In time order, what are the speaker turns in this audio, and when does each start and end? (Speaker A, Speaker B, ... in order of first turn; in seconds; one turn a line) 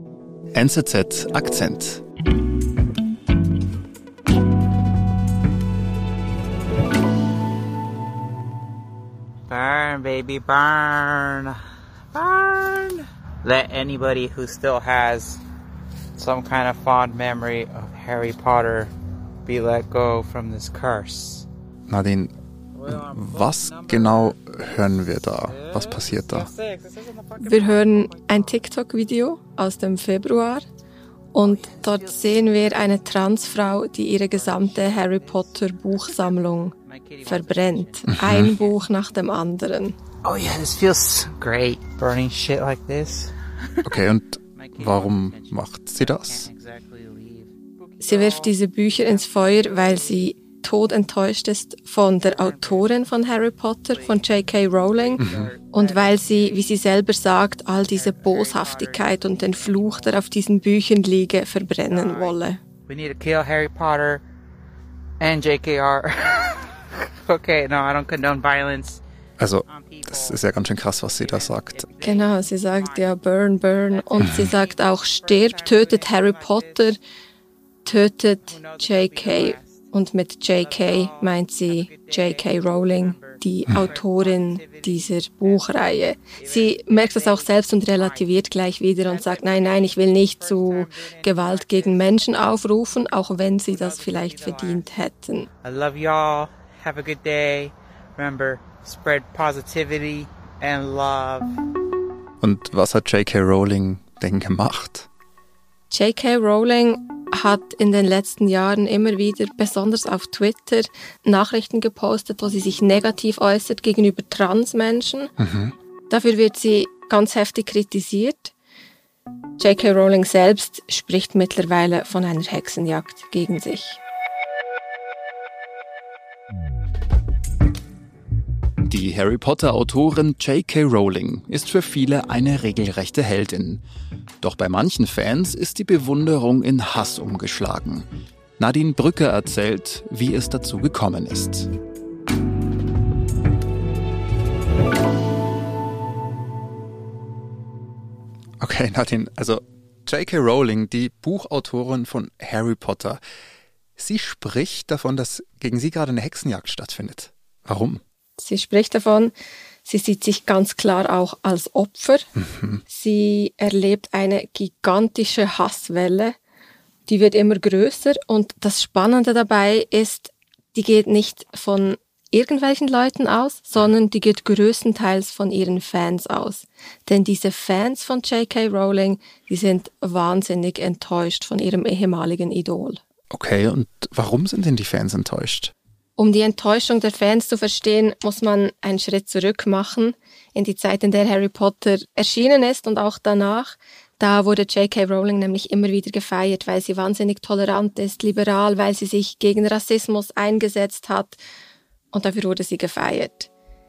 Speaker A: 0.5-2.0
Speaker B: 9.5-11.6
Speaker B: 12.1-15.4
Speaker B: 16.1-18.9
Speaker B: 19.4-21.5
Speaker A: 21.9-22.3
Speaker B: 22.7-28.6
Speaker A: 22.9-26.5
Speaker C: 27.4-30.6
Speaker C: 31.3-36.7
Speaker B: 31.4-32.4
Speaker B: 34.2-38.8
Speaker C: 37.2-40.0
Speaker A: 38.1-38.5
Speaker B: 40.2-43.3
Speaker A: 43.8-46.5
Speaker B: 44.5-50.3
Speaker C: 48.0-62.6
Speaker B: 52.2-53.0
Speaker B: 53.8-56.7
Speaker A: 55.2-55.5
Speaker B: 57.8-60.2
Speaker B: 61.9-64.2
Speaker B: 65.2-69.0
Speaker A: 69.4-71.9
Speaker B: 69.7-77.0
Speaker C: 72.0-77.0
Speaker A: 74.2-74.5
Speaker C: 77.8-95.5
Speaker B: 78.4-79.9
Speaker B: 80.5-92.5
Speaker B: 93.6-94.8
Speaker B: 95.6-101.5
Speaker A: 102.4-105.1
Speaker C: 105.9-115.3
Speaker A: 115.4-115.7
Speaker C: 116.1-118.5
Speaker C: 119.6-124.0
Speaker A: 128.8-133.8
Speaker A: 134.4-138.1
Speaker A: 138.6-141.7
Speaker A: 148.6-153.2
Speaker A: 154.0-158.0
Speaker C: 158.4-159.3
Speaker C: 159.8-162.3
Speaker A: 162.4-162.8
Speaker C: 162.9-166.3
Speaker C: 167.1-183.0
Speaker A: 183.3-185.7
Speaker C: 186.2-201.4
Speaker C: 202.1-203.5